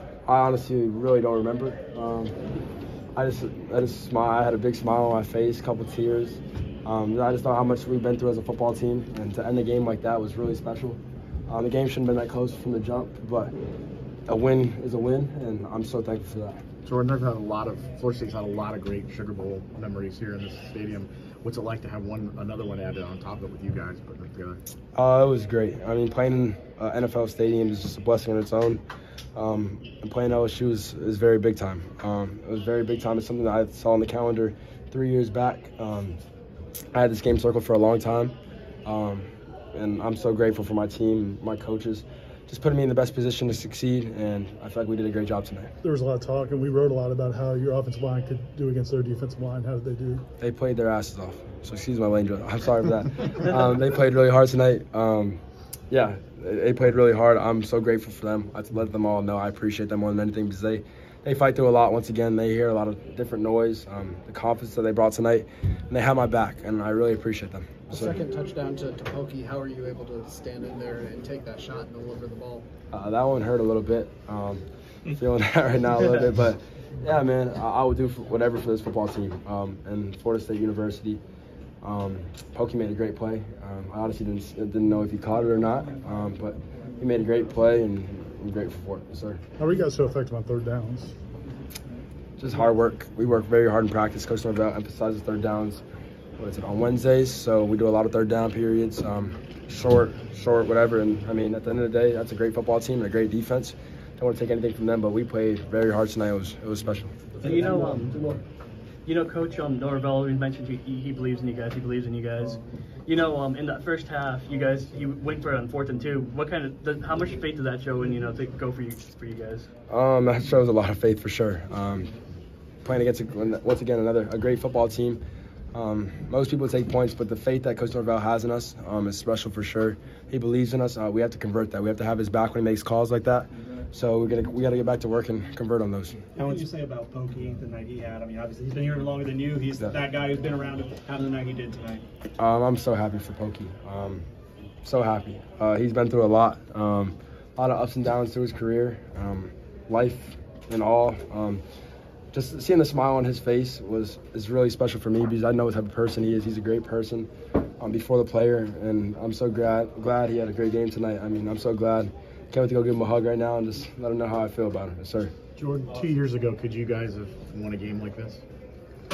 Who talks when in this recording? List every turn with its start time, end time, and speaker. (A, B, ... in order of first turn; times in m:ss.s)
0:00.3-0:02.4 A
0:03.2-0:13.5 A
0:14.3-0:16.7 A
0:16.8-0:24.6 B
0:25.0-0:28.8 A
0:29.4-0:36.2 A
0:36.9-0:45.7 A
0:45.8-0:50.2 C
0:50.4-1:08.2 A
1:07.9-1:12.7 D
1:12.9-1:21.2 A
1:21.8-1:29.4 A
1:29.6-1:31.2 C
1:32.4-1:35.8 A
1:36.4-1:47.2 A
1:47.4-1:48.4 E
1:49.1-1:59.7 E
1:59.9-2:02.1 A
2:02.8-2:05.2 A
2:05.7-2:16.2 A
2:16.4-2:22.0 F
2:22.4-2:24.2 A
2:24.8-2:31.6 A
2:32.3-2:45.3 A
2:45.6-2:48.4 B